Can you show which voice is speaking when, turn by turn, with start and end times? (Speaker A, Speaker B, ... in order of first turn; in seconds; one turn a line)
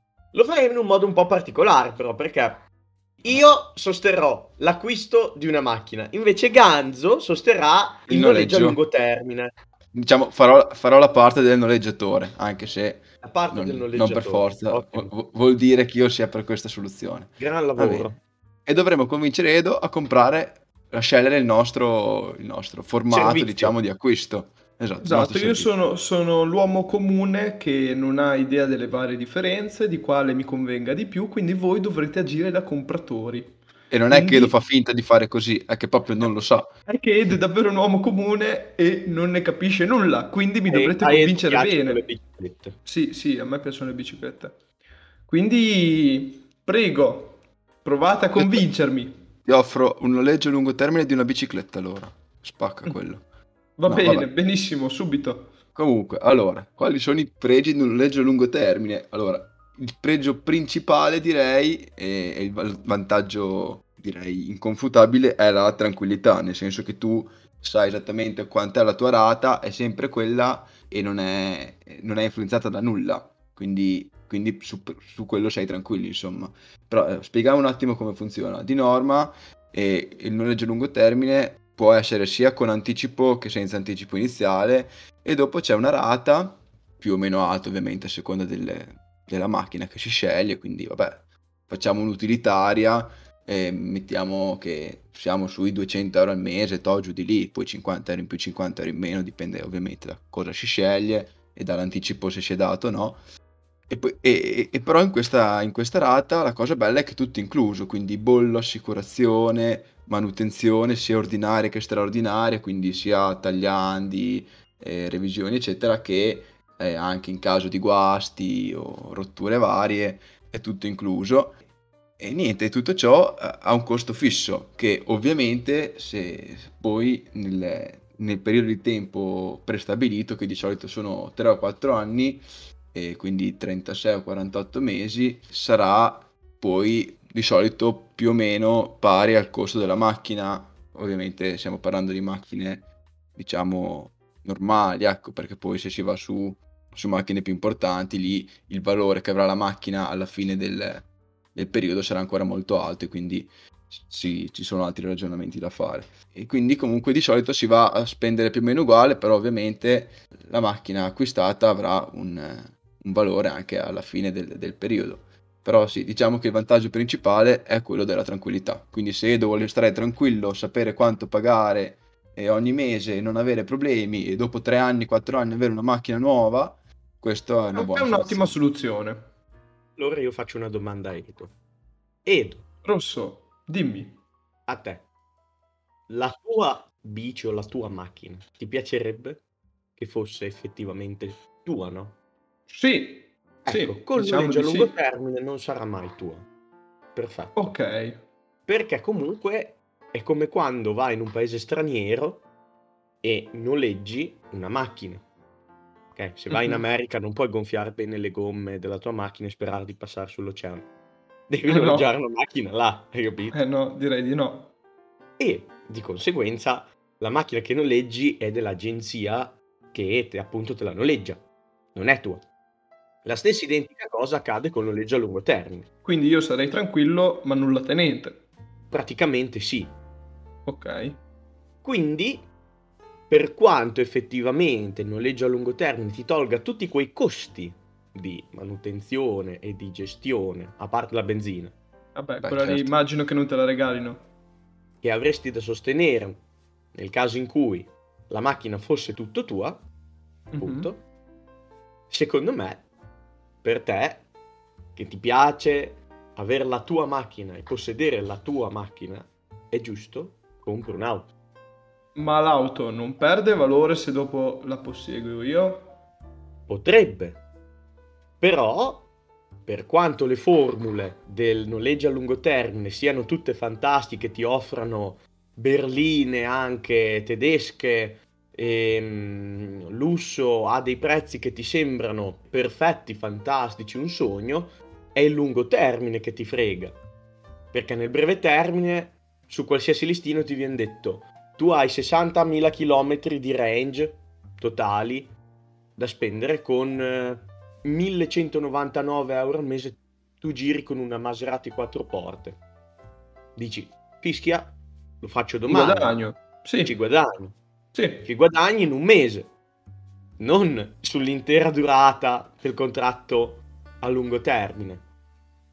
Speaker A: 0.3-2.7
Speaker A: 3.2-9.5
Speaker B: 8.1-8.8
Speaker B: 9.9-18.1
Speaker A: 13.2-15.1
Speaker A: 17.4-18.2
Speaker B: 18.7-25.7
Speaker A: 23.1-23.8
Speaker C: 25.0-33.6
Speaker B: 33.9-36.7
Speaker C: 34.1-34.5
Speaker C: 36.9-42.0
Speaker A: 40.7-42.8
Speaker C: 42.9-44.6
Speaker C: 45.2-49.2
Speaker B: 48.4-48.7
Speaker B: 49.5-53.2
Speaker C: 53.8-55.6
Speaker B: 53.9-54.3
Speaker B: 55.8-103.2
Speaker B: 103.9-121.6
Speaker B: 122.2-178.6
Speaker C: 177.8-179.3
Speaker A: 180.0-181.5
Speaker A: 182.2-182.6
Speaker C: 182.8-184.2
Speaker A: 184.7-185.1
Speaker A: 186.1-189.4
Speaker A: 190.0-192.2
Speaker C: 192.7-194.9
Speaker A: 193.7-196.5
Speaker A: 197.2-197.7
Speaker C: 197.6-198.2
Speaker A: 198.7-202.4
Speaker A: 203.2-205.2
Speaker A: 206.2-210.9
Speaker C: 206.5-206.8
Speaker A: 211.5-213.6
Speaker C: 211.7-212.1
Speaker C: 213.5-214.7
Speaker A: 215.4-222.4
Speaker A: 223.2-225.9
Speaker C: 226.1-228.4
Speaker A: 228.9-230.0
Speaker C: 230.7-231.2
Speaker A: 231.8-232.5
Speaker A: 233.3-241.8
Speaker C: 242.2-244.2
Speaker B: 242.4-242.9
Speaker A: 245.0-246.4
Speaker A: 246.9-249.8
Speaker C: 250.5-250.9
Speaker A: 250.6-251.0
Speaker A: 252.1-252.8
Speaker A: 253.6-254.3
Speaker A: 255.0-261.3
Speaker C: 262.2-265.9
Speaker A: 266.7-267.4
Speaker A: 268.4-269.1
Speaker A: 269.7-287.0
Speaker A: 287.7-295.3
Speaker A: 296.0-302.6
Speaker A: 303.6-306.2
Speaker C: 305.7-306.9
Speaker A: 306.8-307.6
Speaker C: 307.9-308.3
Speaker A: 308.2-309.5
Speaker A: 310.4-315.1